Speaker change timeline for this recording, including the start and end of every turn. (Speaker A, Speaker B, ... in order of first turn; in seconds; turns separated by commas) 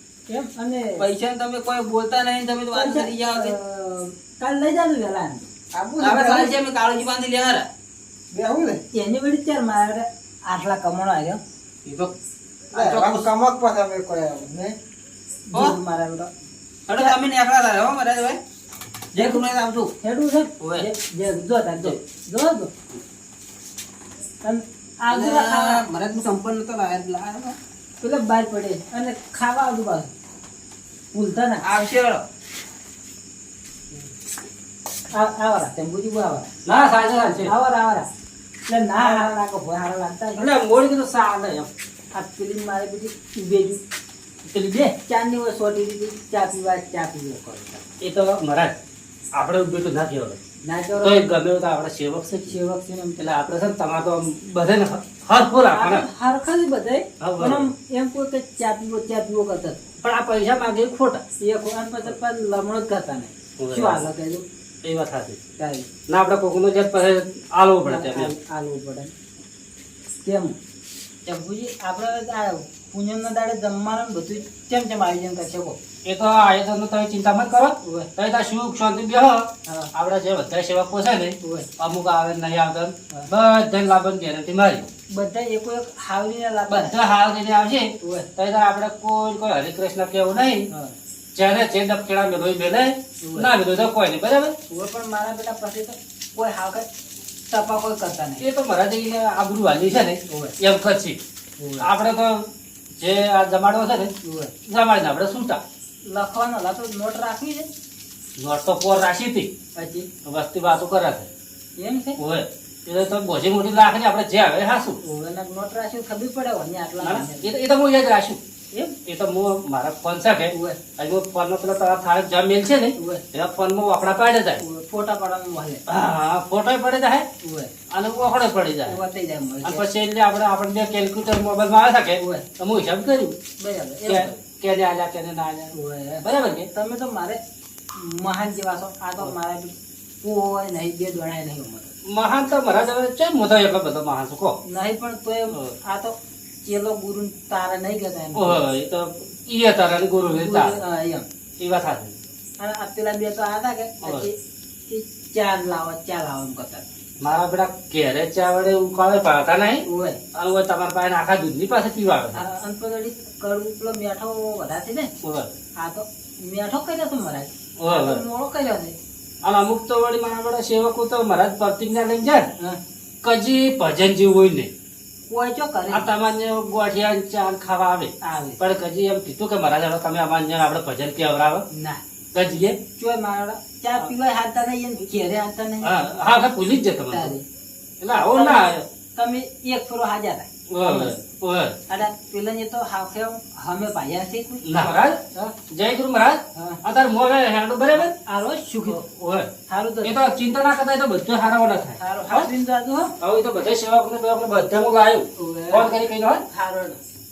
Speaker A: 0.3-1.1, Speaker B: 1.0-3.5, Speaker A: 2.7-5.5, Speaker C: 5.7-6.6, Speaker B: 6.0-7.7, Speaker C: 8.3-8.8, Speaker A: 8.9-11.4, Speaker B: 11.8-12.1, Speaker B: 12.7-13.3, Speaker C: 12.7-14.8, Speaker A: 15.5-16.3, Speaker B: 16.9-18.4, Speaker B: 19.1-19.9, Speaker A: 19.1-19.4, Speaker A: 20.0-22.7, Speaker B: 20.6-20.9, Speaker A: 24.4-25.8, Speaker B: 25.1-27.6, Speaker A: 28.0-30.1, Speaker A: 31.1-31.6, Speaker B: 31.6-32.3, Speaker A: 35.1-36.5, Speaker D: 36.7-37.5, Speaker A: 37.4-38.1, Speaker A: 38.7-40.5, Speaker D: 40.4-41.7, Speaker A: 42.1-43.8, Speaker A: 44.5-47.8, Speaker D: 48.0-48.8, Speaker D: 49.3-50.4, Speaker A: 50.6-51.2, Speaker D: 51.0-52.5, Speaker A: 52.5-53.3, Speaker D: 53.2-56.1, Speaker A: 55.7-59.8, Speaker D: 57.2-57.7, Speaker D: 60.0-61.2, Speaker A: 61.4-64.5, Speaker D: 63.6-64.0, Speaker D: 64.8-65.4, Speaker A: 65.6-65.9, Speaker D: 66.1-68.3, Speaker A: 67.9-69.1, Speaker A: 70.2-70.6, Speaker A: 71.2-75.8, Speaker D: 76.0-84.9, Speaker A: 77.8-78.1, Speaker A: 81.4-81.7, Speaker A: 85.1-87.0, Speaker D: 86.7-90.7, Speaker A: 88.0-88.3, Speaker D: 91.3-94.6, Speaker A: 93.2-93.5, Speaker A: 94.7-96.9, Speaker A: 97.5-98.4, Speaker D: 98.4-101.2, Speaker A: 100.3-100.5, Speaker A: 101.6-101.9, Speaker D: 101.8-104.1, Speaker A: 104.2-104.5, Speaker D: 104.7-105.6, Speaker A: 106.1-107.7, Speaker D: 108.4-109.5, Speaker A: 109.8-110.1, Speaker D: 110.2-111.3, Speaker A: 111.8-112.2, Speaker D: 112.2-115.0, Speaker A: 115.0-117.5, Speaker D: 117.0-118.4, Speaker D: 119.1-124.6, Speaker A: 120.5-120.8, Speaker A: 123.0-123.2, Speaker A: 124.6-125.8, Speaker D: 125.9-127.3, Speaker A: 127.4-127.7, Speaker D: 127.9-129.0, Speaker A: 128.9-129.8, Speaker D: 129.6-133.4, Speaker A: 132.2-132.5, Speaker A: 133.6-134.3, Speaker D: 134.1-136.7, Speaker A: 135.7-137.4, Speaker A: 137.9-141.9, Speaker D: 142.1-144.6, Speaker A: 144.7-148.6, Speaker D: 148.3-150.8, Speaker A: 150.3-151.3, Speaker D: 151.6-152.2, Speaker A: 152.6-154.3, Speaker D: 154.0-154.3, Speaker A: 154.9-156.9, Speaker D: 157.2-162.4, Speaker A: 159.9-160.2, Speaker A: 162.3-165.1, Speaker D: 165.2-165.5, Speaker A: 165.8-168.9, Speaker D: 167.8-168.2, Speaker D: 169.4-172.5, Speaker D: 173.2-174.7, Speaker A: 175.3-176.1, Speaker D: 175.9-181.6, Speaker A: 178.2-178.6, Speaker A: 181.7-182.0, Speaker D: 182.3-182.8, Speaker A: 183.0-186.2, Speaker D: 185.8-187.3, Speaker A: 187.1-187.4, Speaker D: 188.0-188.8, Speaker A: 188.3-191.1, Speaker D: 190.7-191.8, Speaker A: 191.9-195.5, Speaker D: 194.6-198.1, Speaker A: 196.6-196.8, Speaker A: 198.0-199.0, Speaker D: 198.9-199.5, Speaker A: 199.7-200.2, Speaker D: 200.0-202.5, Speaker A: 202.0-203.1, Speaker D: 203.2-206.4, Speaker A: 205.4-205.9, Speaker A: 206.5-207.0